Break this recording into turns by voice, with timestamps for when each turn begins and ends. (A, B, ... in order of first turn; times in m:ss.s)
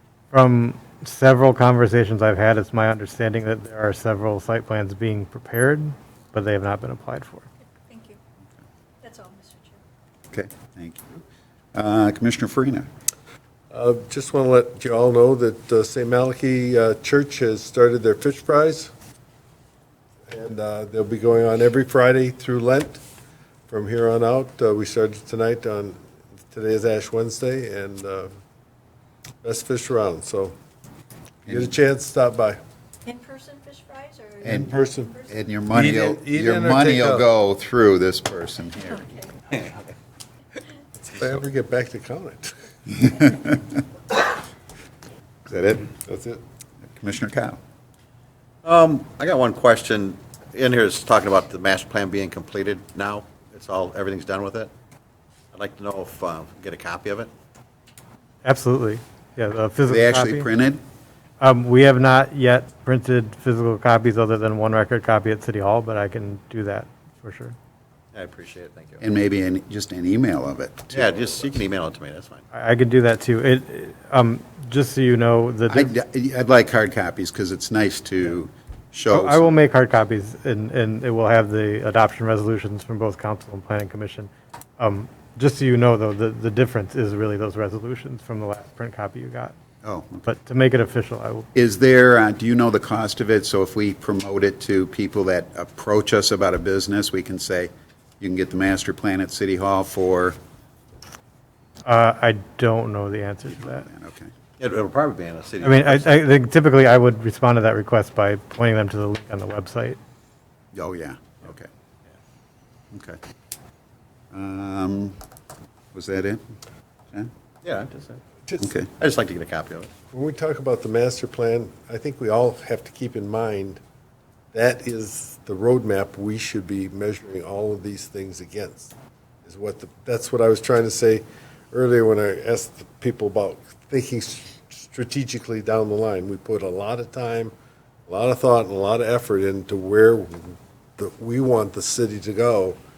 0:00.3-0:07.5 A
0:07.8-0:08.2 B
0:09.0-0:09.8 B
0:10.3-0:11.2 C
0:11.7-0:12.9 C
0:13.7-0:18.9 D
0:20.3-0:23.0 D
0:23.7-0:26.0 D
0:26.5-0:28.3 D
0:29.4-0:30.5 D
0:31.4-0:31.7 C
0:31.5-0:32.6 D
0:33.0-0:35.4 B
0:34.4-0:34.8 C
0:34.4-0:35.1 D
0:35.3-0:39.1 C
0:35.7-0:37.3 D
0:41.0-0:42.5 D
0:42.9-0:43.8 C
0:45.5-0:45.9 C
0:46.0-0:46.4 D
0:46.8-0:47.6 C
0:48.6-0:54.7 E
0:55.5-0:57.3 E
0:58.4-1:00.5 A
0:59.8-1:00.8 C
1:01.4-1:07.6 A
1:08.1-1:09.0 E
1:09.0-1:11.6 C
1:10.9-1:12.4 E
1:12.5-1:15.9 A
1:15.7-1:19.5 C
1:19.1-1:29.5 A
1:29.8-1:30.2 C
1:30.2-1:31.5 A
1:31.5-1:40.4 C
1:41.8-1:43.9 A
1:43.6-1:44.3 C
1:44.6-1:46.1 E
1:45.6-1:50.0 A
1:50.7-1:51.7 C
1:52.9-1:53.2 C
1:54.3-1:55.2 C
1:55.9-1:56.4 C
1:57.6-1:58.2 E
1:58.5-1:58.7 D
1:58.6-1:58.9 C
1:59.0-1:59.9 E
2:00.1-2:03.8 D
2:04.5-2:17.5 D
2:18.1-2:22.8 D